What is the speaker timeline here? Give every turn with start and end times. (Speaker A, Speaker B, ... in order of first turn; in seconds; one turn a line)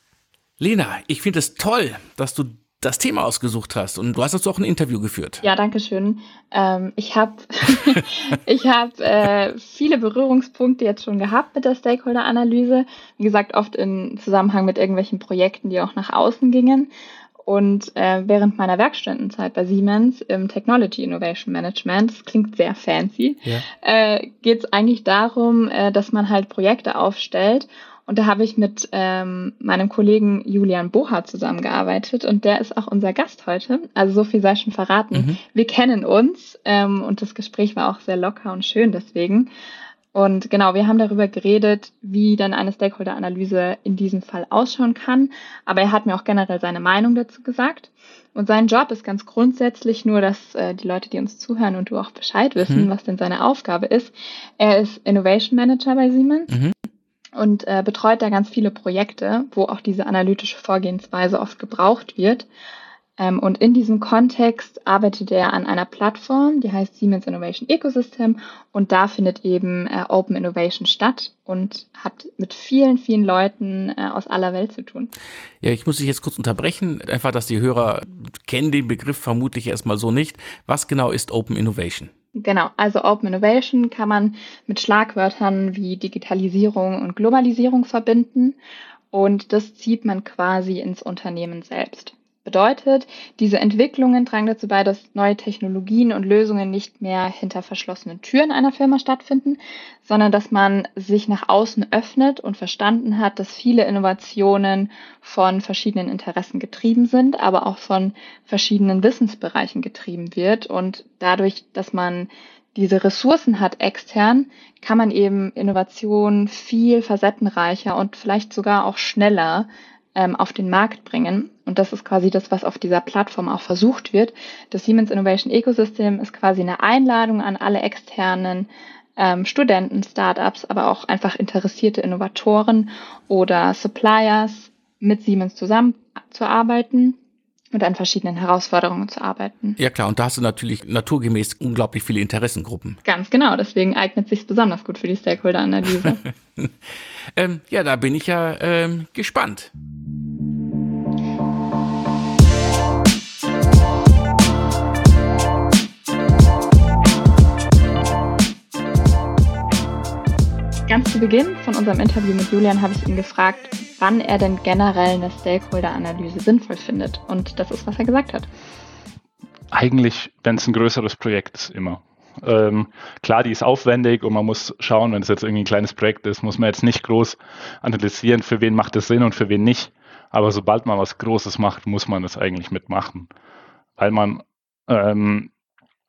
Speaker A: 0.6-5.4
Speaker B: 5.4-16.9
Speaker B: 17.4-39.5
Speaker A: 35.1-35.4
Speaker B: 40.1-56.5
Speaker A: 52.6-52.9
Speaker B: 57.4-62.5
Speaker B: 63.2-75.1
Speaker A: 75.6-82.1
Speaker B: 82.4-88.6
Speaker B: 89.1-137.2
Speaker B: 137.7-139.8
Speaker A: 139.8-143.0
Speaker B: 143.1-146.2
Speaker A: 146.1-146.7
Speaker A: 147.3-149.7
Speaker B: 160.9-168.5
Speaker C: 169.7-183.3
Speaker C: 184.0-185.5